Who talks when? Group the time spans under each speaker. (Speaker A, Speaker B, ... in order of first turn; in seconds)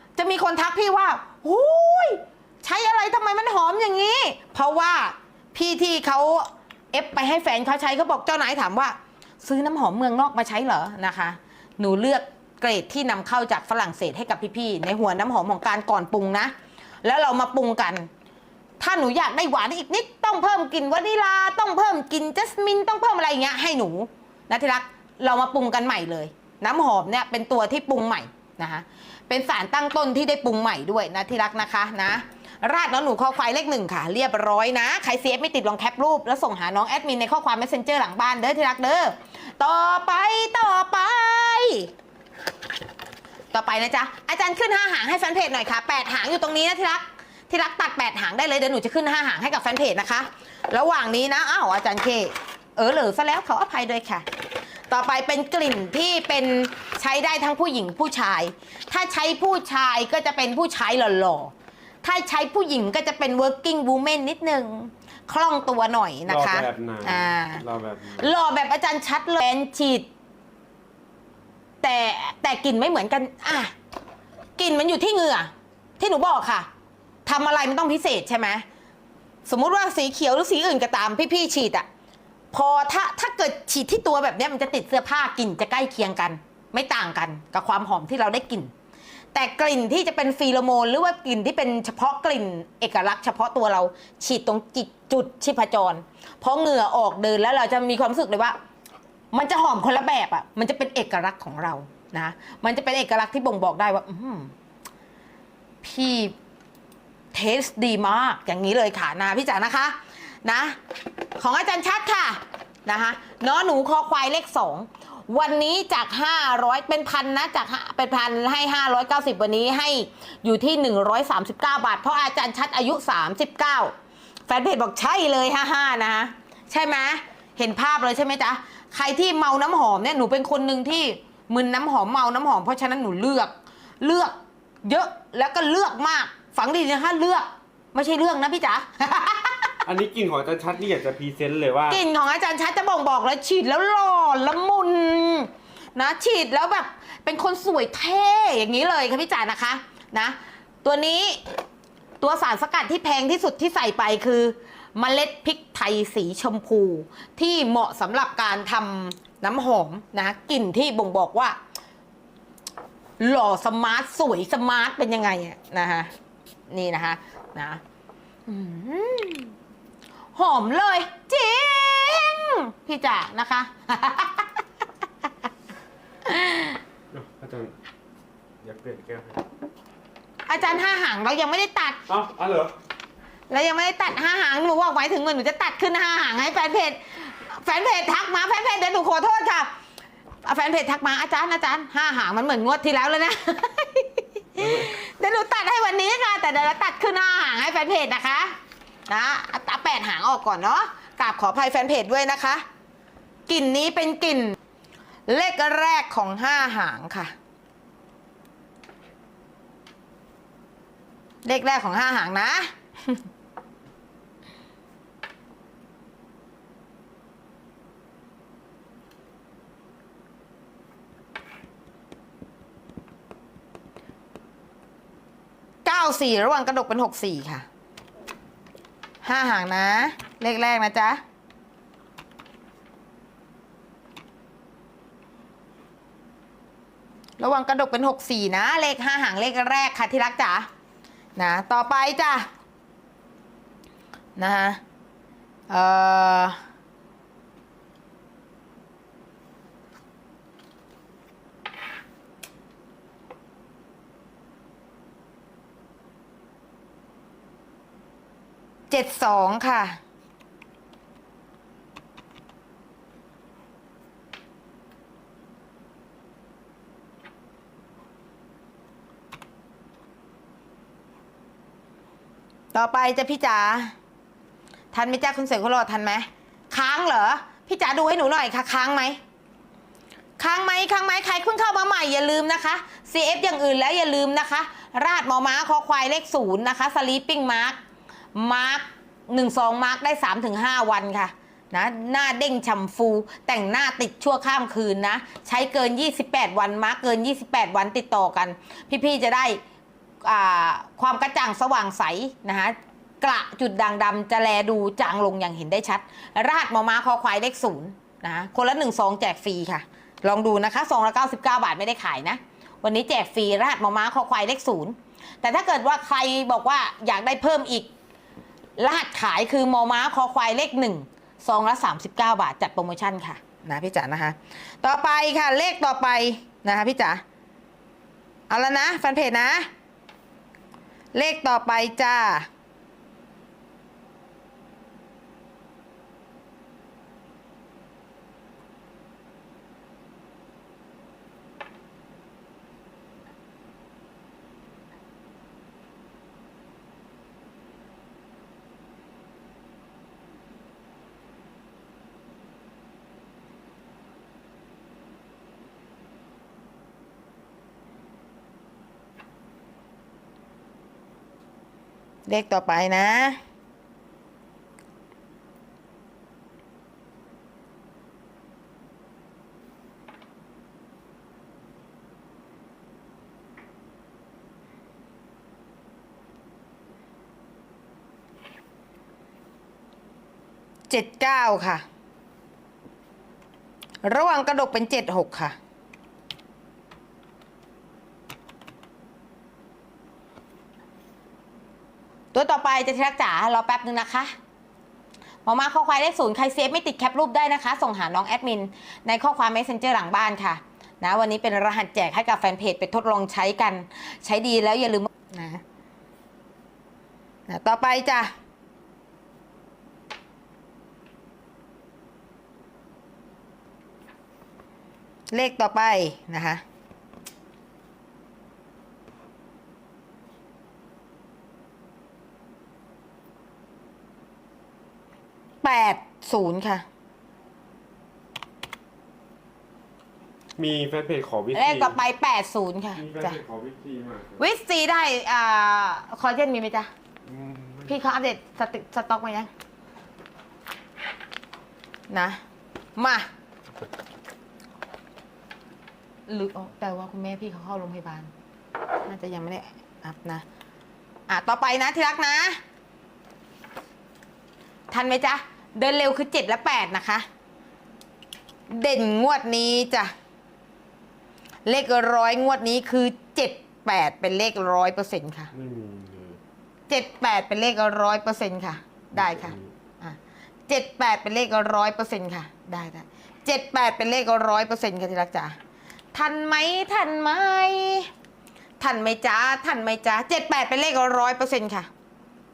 Speaker A: 0.2-18.1, 18.8-41.9, 43.5-54.3, 54.9-67.6, 68.2-70.1, 71.8-73.7, 74.6-76.7, 77.3-78.7, 79.5-81.9, 82.5-88.7, 89.3-98.6, 99.3-104.5, 105.8-106.4, 107.3-110.8, 111.4-123.9, 124.5-139.8, 141.9-151.4, 152.2-161.6, 163.2-166.1, 166.7-167.8, 168.5-169.6, 170.3-174.5, 176.3-176.8, 180.5-182.0, 183.5-189.7, 190.4-198.6, 199.1-202.7, 203.5-204.6, 205.3-207.3, 211.4-213.2, 225.8-227.7, 229.2-231.2, 237.4-240.7, 241.4-242.5, 244.4-244.8, 245.7-246.6, 258.9-260.0, 272.7-273.9, 274.9-279.2, 280.4-287.8, 288.4-299.6, 300.2-317.9, 318.8-327.2, 328.5-329.7, 331.1-332.5, 362.3-363.4, 380.9-381.8, 384.0-385.6, 392.3-394.3, 395.5-405.6, 407.5-408.3, 415.3-416.6, 425.6-426.9, 431.5-433.4, 434.4-436.9, 437.9-439.5, 442.1-442.4, 443.0-443.3, 446.3-448.3, 449.1-450.4, 451.3-452.6, 454.9-457.3, 458.7-460.1, 461.7-465.5, 466.9-475.6, 476.1-478.1, 478.8-481.9
Speaker B: 66.3-68.3, 139.9-142.0, 177.1-177.8, 178.6-179.4, 182.1-182.7, 194.6-194.9, 430.6-432.0, 433.0-434.4, 437.3-438.0, 465.5-466.4, 469.2-469.7